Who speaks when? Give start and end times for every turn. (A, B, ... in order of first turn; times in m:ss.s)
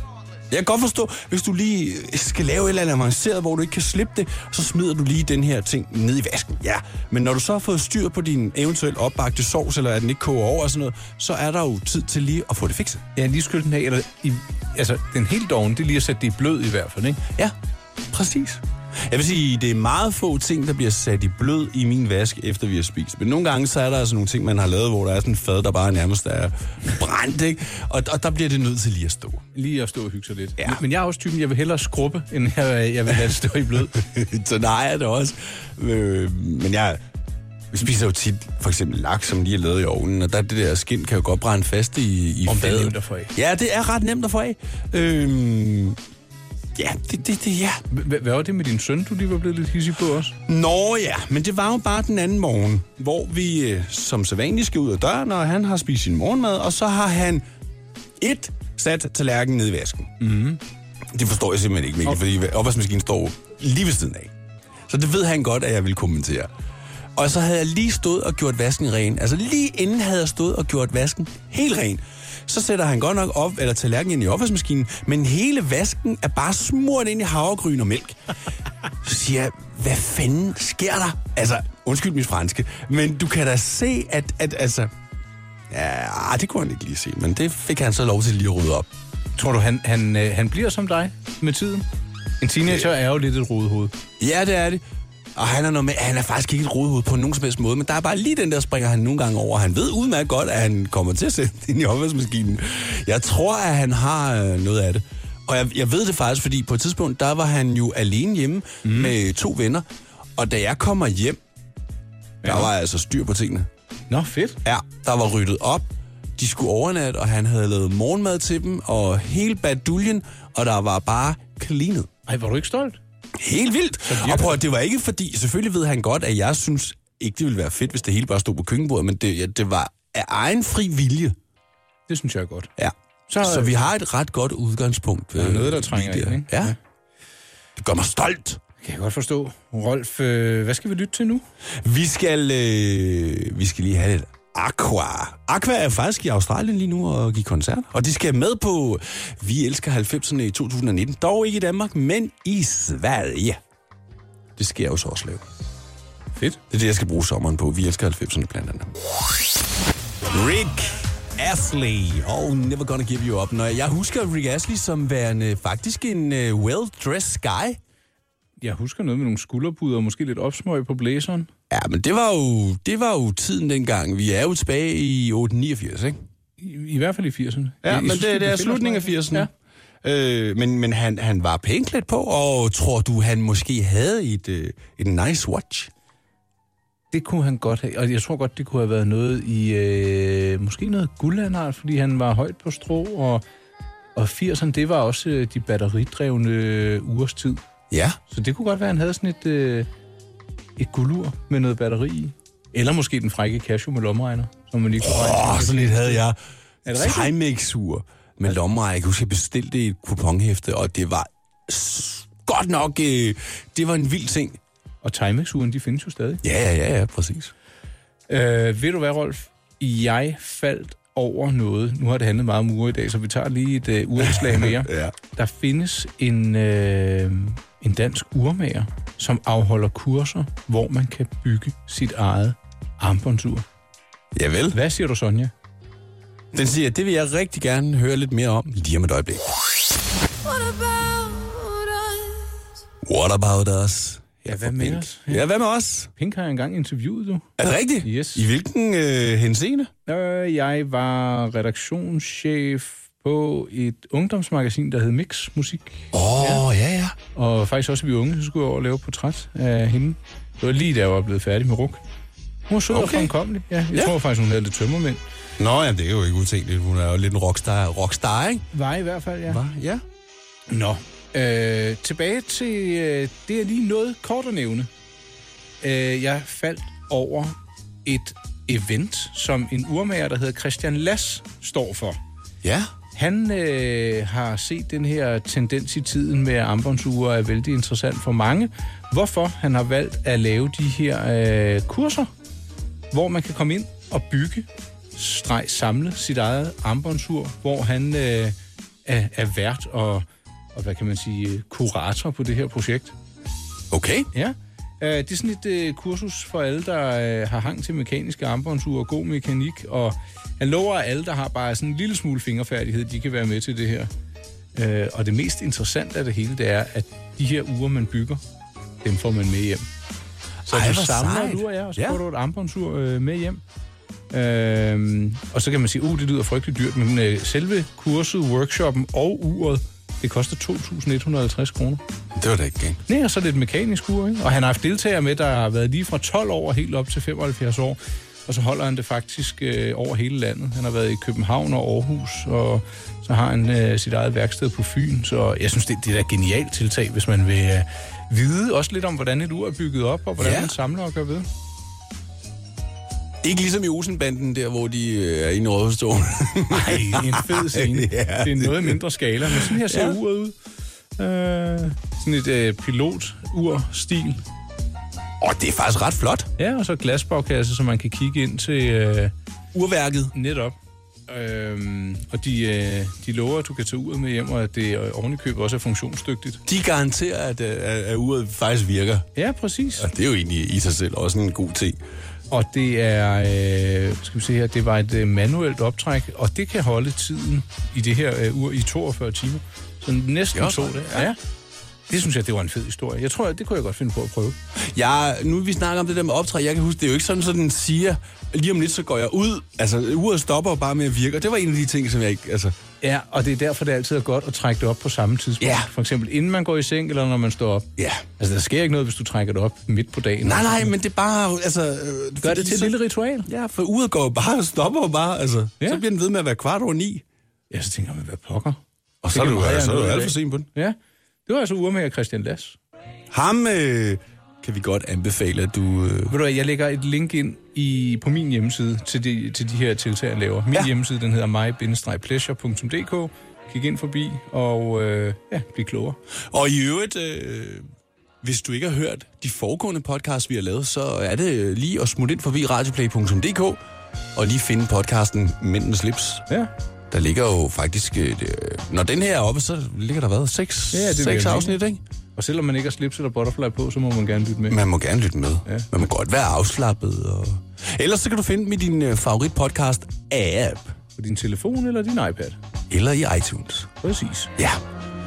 0:00.5-0:13.0 A
0:13.2-0:17.2 B
0:18.1-0:29.4 A
0:29.5-0:34.0 B
0:34.0-0:37.0 A
0:37.7-0:46.0 A
0:42.5-0:43.3 B
0:46.8-0:47.8 A
0:47.9-0:50.4 B
0:50.5-0:57.4 A
0:58.2-1:00.1 A
1:00.2-1:00.6 B
1:01.1-1:04.3 A
1:04.9-1:06.5 A
1:07.2-1:18.2 A
1:19.0-1:24.9 A
1:25.7-1:28.9 A
1:29.4-1:31.8 B
1:32.4-1:34.0 B
1:34.2-1:34.8 A
1:35.4-1:49.8 A
1:48.8-1:49.1 B
1:50.4-1:51.4 A
1:52.4-1:52.7 B
1:52.4-1:53.7 A
1:54.1-1:54.6 B
1:54.6-2:02.1 A
2:02.3-2:03.0 B
2:03.4-2:11.4 A
2:04.1-2:04.6 B
2:12.1-2:12.7 B
2:12.8-2:16.7 A
2:13.3-2:13.8 B
2:15.4-2:16.8 B
2:17.8-2:18.6 A
2:18.8-2:21.4 B
2:21.8-2:33.6 A
2:34.6-2:35.4 A
2:36.7-2:38.9 A
2:40.3-2:47.8 A
2:48.6-2:51.5 B
2:51.7-2:56.2 A
2:56.6-2:59.5 B
2:57.8-2:59.5 A
3:00.0-3:05.9 A
3:07.1-3:13.4 B
3:14.2-3:17.6 B
3:17.9-3:18.2 A
3:18.3-3:19.9 B
3:20.8-3:26.2 B
3:25.0-3:26.4 A
3:26.9-3:27.3 B
3:26.9-3:34.6 A
3:35.0-3:36.4 B
3:36.4-3:37.5 A
3:38.3-3:53.6 B
3:44.2-3:45.2 A
3:54.4-3:54.8 A
3:54.7-3:55.5 B
3:56.5-3:59.6 A
4:00.5-4:02.2 B
4:03.0-4:06.1 A
4:04.4-4:05.4 B
4:06.2-4:08.5 B
4:07.6-4:09.9 A
4:10.1-4:16.6 B
4:16.1-4:17.2 A
4:17.3-4:22.0 B
4:22.7-4:25.2 B
4:22.9-4:23.3 A
4:25.6-4:28.7 A
4:28.7-4:29.6 B
4:29.5-4:30.0 A
4:30.7-4:34.9 B
4:35.8-4:42.2 B
4:42.6-4:42.9 A
4:43.2-4:52.3 B
4:53.1-5:03.2 B
5:03.9-5:04.3 A
5:04.3-5:14.1 B
5:14.8-5:18.4 B
5:19.0-5:19.8 B
5:20.7-5:22.2 A
5:20.7-5:23.6 B
5:24.3-5:32.0 B
5:32.4-5:33.0 A
5:33.1-5:51.5 B
5:50.4-5:50.7 A
5:53.4-6:00.2 A
5:56.7-6:00.6 B
6:01.2-6:04.4 B
6:05.4-6:06.5 A
6:06.6-6:09.3 B
6:09.7-6:10.3 A
6:10.3-6:10.8 B
6:11.3-6:16.6 B
6:16.7-6:19.3 A
6:19.4-6:20.1 B
6:20.0-6:22.0 A
6:22.5-6:31.4 B
6:30.5-6:31.3 A
6:32.1-6:34.6 B
6:34.8-6:42.8 A
6:43.0-6:51.0 B
6:45.6-6:45.9 A
6:48.0-6:48.2 A
6:50.4-6:57.2 A
6:52.4-6:53.5 B
6:57.7-6:58.8 B
6:59.2-7:00.7 A
6:59.3-7:02.8 B
7:03.3-7:06.3 A
7:06.3-7:16.2 B
7:16.5-7:17.8 A
7:18.4-7:23.8 A
7:24.4-7:26.4 A
7:27.1-7:32.0 A
7:30.9-7:31.8 B
7:32.4-7:34.8 B
7:34.7-7:41.0 A
7:41.2-7:42.6 B
7:42.9-7:43.9 A
7:44.0-7:44.5 B